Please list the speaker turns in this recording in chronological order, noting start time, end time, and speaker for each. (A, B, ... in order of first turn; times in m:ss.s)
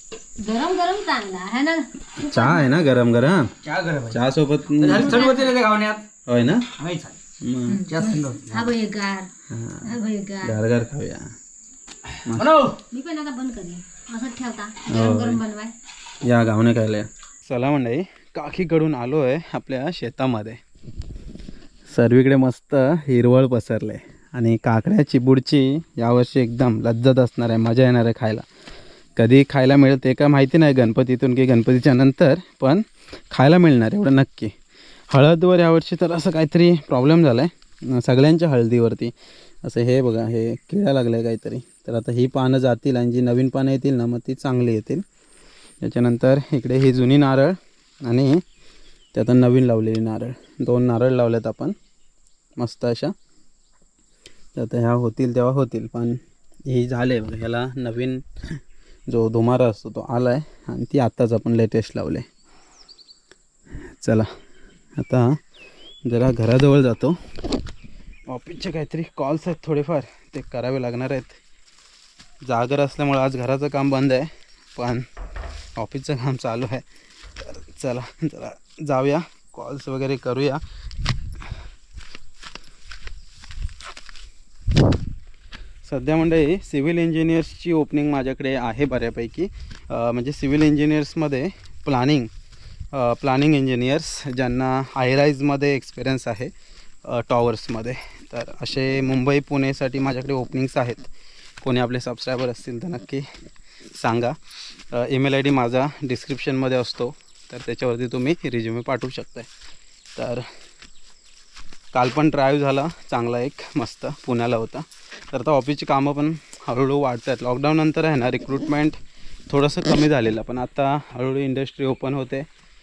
0:00.4-0:02.7 A
0:02.2-0:03.5 B
0:03.6-0:04.2 C
0:04.1-0:05.3 B
0:04.8-0:06.1 C
0:04.9-0:05.5 A
0:06.3-0:06.7 B
0:06.8-0:07.2 C
0:07.4-0:07.8 B
0:07.7-0:09.3 A
0:07.9-0:08.7 C
0:09.5-0:11.3 B
0:09.8-0:10.6 A
0:12.2-0:12.5 B
0:12.3-0:12.8 C
0:12.9-0:15.7 A
0:14.9-0:15.4 B
0:16.2-0:20.6 B
0:21.9-0:28.4 B
0:29.2-0:34.5 B
0:35.1-0:39.1 B
0:39.6-0:45.0 B
0:45.8-0:48.4 B
0:49.1-0:51.8 B
0:52.6-0:53.1 B
0:54.6-0:58.2 B
0:59.1-1:02.2 B
1:04.0-1:04.3 B
1:05.0-1:05.4 B
1:06.1-1:07.2 B
1:08.3-1:11.4 B
1:12.4-1:15.1 B
1:15.8-1:16.8 B
1:17.4-1:20.6 B
1:25.8-1:32.3 B
1:32.9-1:36.5 B
1:37.0-1:41.1 B
1:41.6-1:43.2 B
1:43.9-1:44.4 B
1:44.9-1:49.5 B
1:50.2-1:50.4 B
1:51.9-1:59.0 B
1:59.5-2:02.4 B